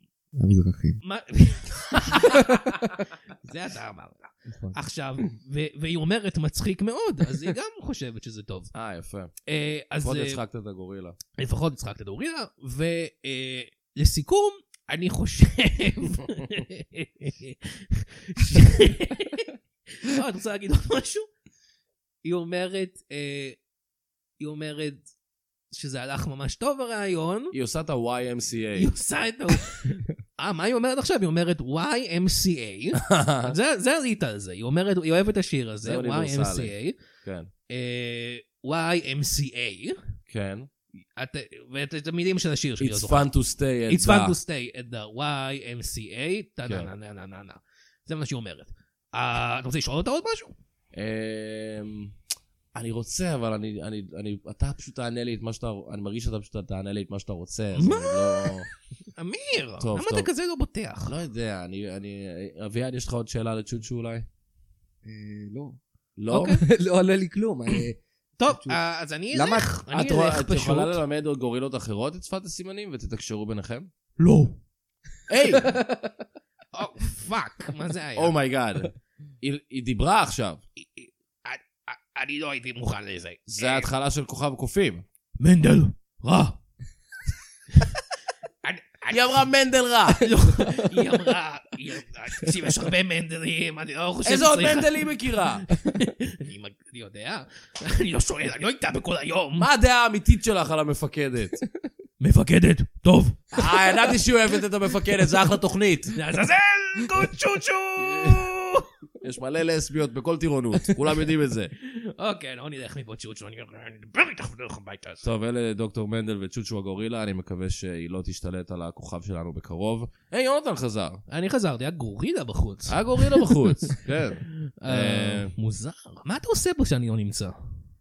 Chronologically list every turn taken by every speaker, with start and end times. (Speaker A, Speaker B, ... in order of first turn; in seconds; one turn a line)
Speaker A: 0.4-1.0
Speaker B: 1.0-8.7
Speaker C: 8.7-9.3
Speaker B: 9.4-10.4
Speaker C: 10.0-11.2
Speaker B: 11.4-21.3
Speaker B: 22.2-23.6
Speaker B: 24.4-25.0
Speaker B: 25.7-27.5
Speaker C: 27.5-28.9
Speaker B: 28.8-37.0
Speaker C: 32.9-33.5
Speaker C: 35.8-37.5
Speaker B: 37.7-40.0
Speaker C: 40.3-40.7
Speaker B: 41.1-43.3
Speaker C: 42.8-44.4
Speaker B: 43.9-50.5
Speaker C: 46.6-46.9
Speaker C: 50.9-52.1
Speaker C: 52.7-58.7
Speaker B: 57.8-58.6
Speaker B: 59.2-61.1
Speaker C: 59.8-60.3
Speaker C: 61.0-64.2
Speaker A: 65.0-65.8
Speaker C: 66.2-66.6
Speaker B: 66.3-66.6
Speaker A: 66.3-68.8
Speaker B: 68.4-71.0
Speaker A: 69.3-69.7
Speaker C: 69.9-73.9
Speaker B: 74.2-74.6
Speaker C: 75.3-75.7
Speaker B: 76.7-78.3
Speaker C: 78.2-80.6
Speaker B: 80.8-83.9
Speaker C: 83.5-85.0
Speaker B: 85.4-86.6
Speaker B: 88.6-89.5
Speaker C: 89.1-90.4
Speaker B: 90.1-99.7
Speaker C: 94.2-95.7
Speaker C: 99.6-101.6
Speaker B: 102.2-103.5
Speaker C: 103.5-106.2
Speaker B: 106.1-108.9
Speaker C: 108.0-108.5
Speaker C: 109.2-111.7
Speaker B: 111.8-115.2
Speaker C: 115.2-121.2
Speaker B: 121.3-127.5
Speaker C: 122.9-125.5